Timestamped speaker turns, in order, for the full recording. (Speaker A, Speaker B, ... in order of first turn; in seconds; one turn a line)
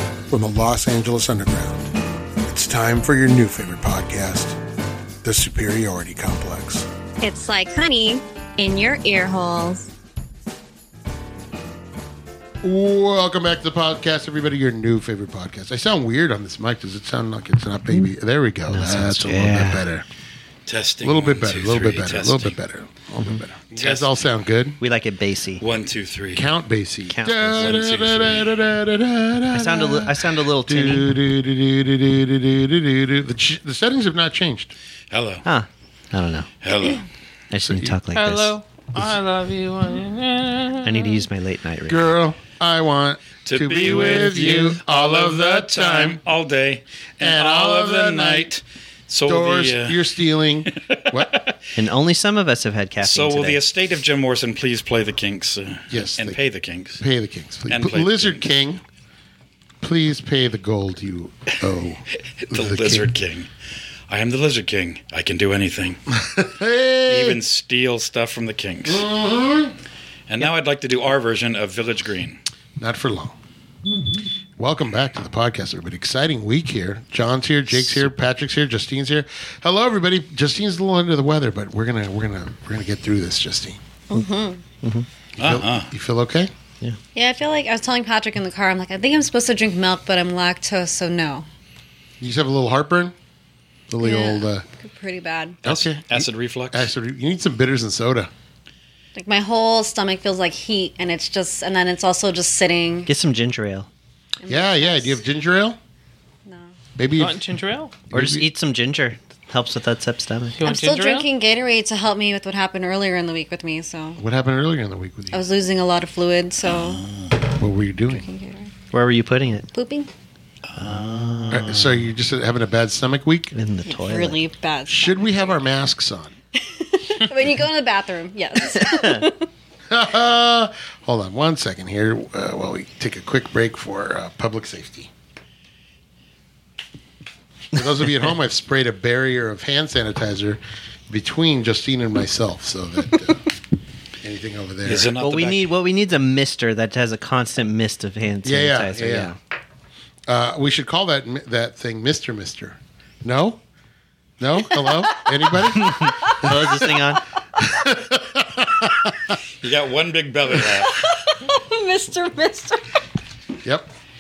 Speaker A: 0.3-1.9
Speaker A: 2.5-4.6
Speaker A: 5.2-6.9
Speaker B: 7.2-9.9
Speaker A: 12.6-20.1
Speaker C: 18.7-19.8
Speaker D: 20.7-22.6
Speaker A: 21.0-24.8
Speaker D: 23.6-24.1
Speaker C: 24.8-25.6
Speaker D: 25.6-26.5
Speaker A: 26.4-34.7
Speaker C: 27.1-27.8
Speaker D: 27.6-28.6
Speaker C: 29.5-31.1
Speaker D: 35.1-35.5
Speaker C: 35.5-36.5
Speaker D: 36.6-37.0
Speaker C: 37.5-38.5
Speaker A: 37.6-37.9
Speaker E: 38.1-41.2
Speaker C: 40.8-42.1
Speaker A: 41.9-46.2
Speaker D: 43.5-50.0
Speaker A: 47.2-48.5
Speaker A: 49.3-51.4
Speaker D: 50.7-51.6
Speaker C: 51.8-53.6
Speaker D: 53.0-57.0
Speaker A: 55.9-56.4
Speaker A: 57.0-58.8
Speaker D: 57.7-58.4
Speaker A: 59.8-63.1
Speaker D: 62.5-63.5
Speaker D: 64.1-66.0
Speaker A: 66.1-67.4
Speaker D: 67.1-69.0
Speaker A: 68.8-69.8
Speaker D: 70.3-72.4
Speaker A: 72.8-73.3
Speaker A: 74.6-83.8
Speaker B: 84.1-84.6
Speaker C: 84.8-85.1
Speaker D: 85.4-85.9
Speaker A: 85.4-86.5
Speaker B: 87.2-91.5
Speaker A: 92.2-93.1
Speaker A: 93.9-94.7
Speaker B: 94.0-95.6
Speaker A: 95.6-98.3
Speaker D: 95.7-96.9
Speaker B: 99.2-103.1
Speaker C: 103.1-103.9
Speaker B: 104.4-105.2
Speaker A: 104.5-105.8
Speaker A: 107.0-107.4
Speaker E: 107.2-108.0
Speaker A: 108.1-108.5
Speaker C: 108.1-110.6
Speaker E: 110.5-111.3
Speaker B: 110.6-114.2
Speaker A: 114.2-115.4
Speaker B: 115.3-117.0
Speaker D: 116.8-117.3
Speaker A: 117.6-118.3
Speaker B: 118.1-118.7
Speaker C: 118.9-119.7
Speaker B: 119.7-120.1
Speaker D: 120.7-121.7
Speaker C: 120.8-122.1
Speaker A: 121.5-123.5
Speaker C: 123.5-124.4
Speaker B: 123.9-125.6
Speaker A: 124.9-126.3
Speaker B: 126.7-129.5
Speaker C: 128.8-129.3
Speaker A: 129.9-135.1
Speaker A: 137.7-143.4
Speaker A: 144.2-145.1
Speaker D: 144.8-145.7
Speaker C: 145.2-149.4
Speaker A: 148.4-149.3
Speaker A: 150.3-153.6
Speaker A: 154.4-156.7
Speaker B: 154.7-157.2
Speaker C: 155.8-157.2
Speaker A: 157.6-159.2
Speaker D: 159.6-161.0
Speaker B: 160.7-162.8
Speaker A: 163.6-163.9